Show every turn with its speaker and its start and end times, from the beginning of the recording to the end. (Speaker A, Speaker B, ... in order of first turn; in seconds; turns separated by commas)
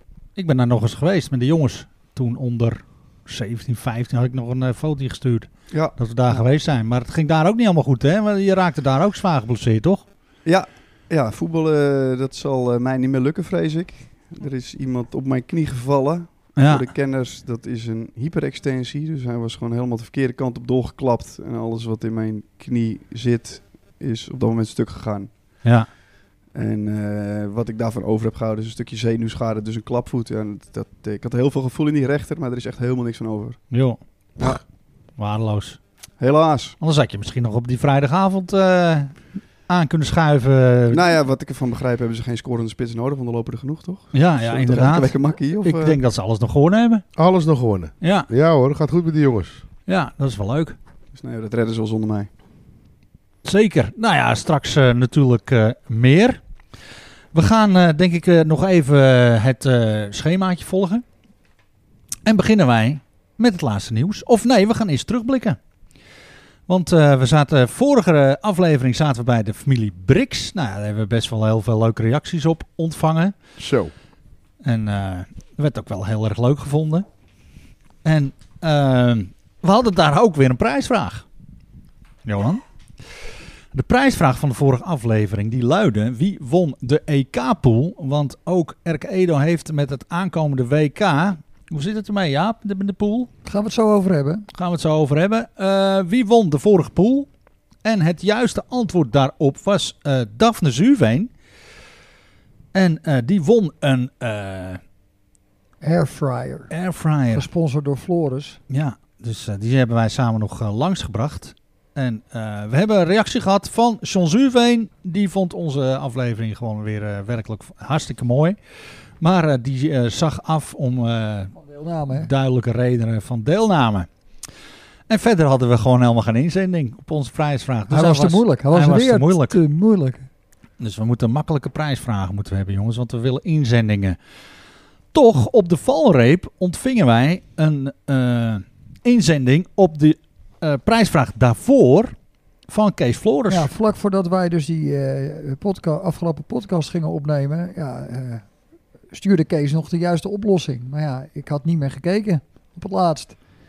Speaker A: 0.4-10.1, Speaker B: 5.7-6.5, Speaker B: 10.4-25.5, Speaker A: 16.6-16.9, Speaker A: 25.6-25.9, Speaker B: 26.5-33.6, Speaker A: 33.7-34.6, Speaker A: 35.2-35.8, Speaker B: 36.2-36.8, Speaker A: 36.8-41.1, Speaker B: 40.9-46.0, Speaker A: 44.1-47.0, Speaker C: 47.2-49.6, Speaker A: 48.0-48.3, Speaker A: 49.9-50.8, Speaker B: 51.1-52.3, Speaker A: 53.5-56.4, Speaker A: 57.3-61.0, Speaker A: 62.3-65.6, Speaker A: 66.7-73.3, Speaker C: 73.6-73.9, Speaker A: 74.6-77.1, Speaker A: 78.0-81.2, Speaker A: 82.2-82.6, Speaker A: 83.7-93.3, Speaker D: 93.5-94.5, Speaker A: 94.5-97.3, Speaker A: 97.8-101.3, Speaker A: 102.7-104.8, Speaker D: 105.8-106.7, Speaker A: 106.7-107.5, Speaker D: 107.3-108.6, Speaker A: 108.7-118.6, Speaker A: 119.2-121.5, Speaker D: 121.6-122.3, Speaker A: 122.1-124.1, Speaker A: 125.1-129.6, Speaker D: 127.9-130.3, Speaker A: 130.8-134.2, Speaker A: 135.1-142.1, Speaker A: 142.7-143.7, Speaker D: 143.5-148.5, Speaker D: 149.1-153.4